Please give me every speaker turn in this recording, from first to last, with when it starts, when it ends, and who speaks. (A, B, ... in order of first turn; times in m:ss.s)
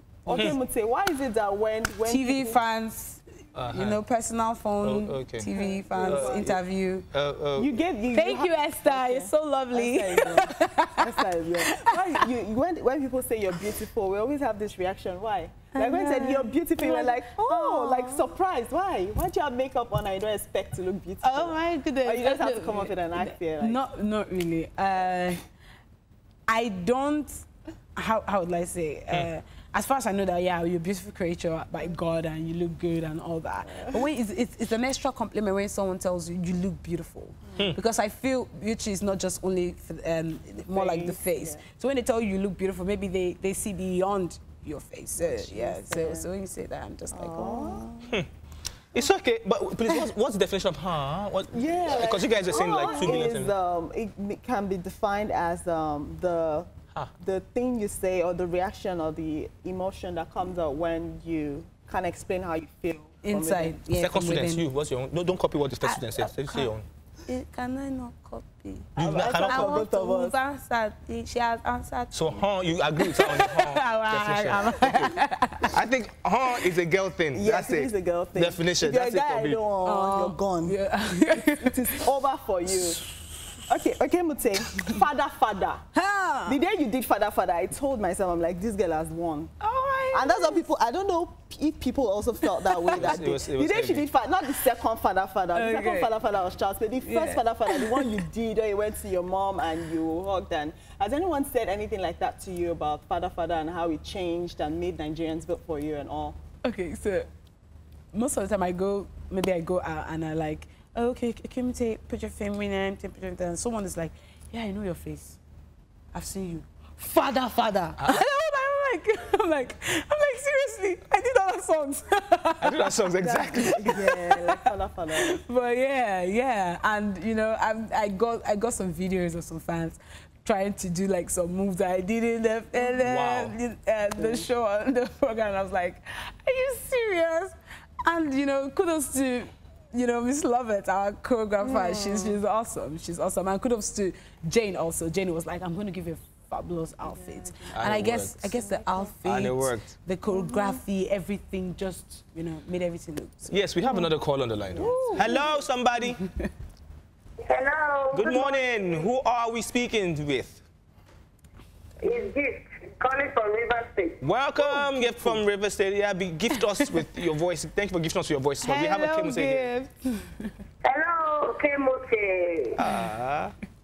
0:00.2-0:02.6 A
0:00.3-0:00.6 B
0:02.1-0:07.1 C
0:03.5-0:04.0 B
0:04.8-0:05.5 B
0:05.5-0:06.6 A
0:06.0-0:06.6 B
0:07.1-0:07.8 B
0:07.6-0:23.8 A
0:08.1-0:12.2 C
0:15.7-0:18.3 C
0:21.2-0:25.4 C
0:26.5-0:27.4 C
0:28.0-0:47.9 C
0:33.6-0:34.1 A
0:40.7-0:41.6 A
0:45.2-0:46.3 A
0:47.1-0:48.2 A
0:48.9-0:53.6 B
0:51.5-1:03.8 A
1:03.2-1:04.6 C
1:03.9-1:06.9 B
1:05.8-1:06.7 C
1:07.3-1:12.4 C
1:09.0-1:09.9 B
1:09.0-1:10.4 A
1:12.1-1:19.6 B
1:13.0-1:15.7 C
1:17.3-1:23.0 A
1:19.8-1:22.0 C
1:22.8-1:23.6 C
1:23.7-1:25.8 A
1:25.9-1:26.6 C
1:26.5-1:29.5 A
1:29.6-1:30.6 C
1:30.1-1:46.4 A
1:32.6-1:33.1 C
1:33.0-1:34.1 B
1:35.5-1:36.1 C
1:37.0-1:38.2 C
1:46.6-1:47.3 C
1:48.1-1:55.4 C
1:56.1-2:03.0 C
2:02.6-2:04.1 B
2:03.2-2:05.4 A
2:03.8-2:04.6 C
2:05.2-2:33.6 C
2:13.0-2:13.6 B
2:14.2-2:14.5 A
2:21.6-2:22.4 A
2:27.0-2:29.1 A
2:27.8-2:28.4 B
2:29.2-2:29.9 B
2:30.2-2:30.8 A
2:33.5-2:36.2 B
2:34.7-2:35.5 A
2:34.8-2:35.4 C
2:36.2-2:36.5 C
2:37.4-2:39.1 D
2:38.1-2:40.6 B
2:42.0-2:44.2 D
2:44.2-2:49.7 B
2:44.6-2:45.4 C
2:48.6-2:50.5 C
2:50.8-2:52.8 D
2:52.8-2:53.6 B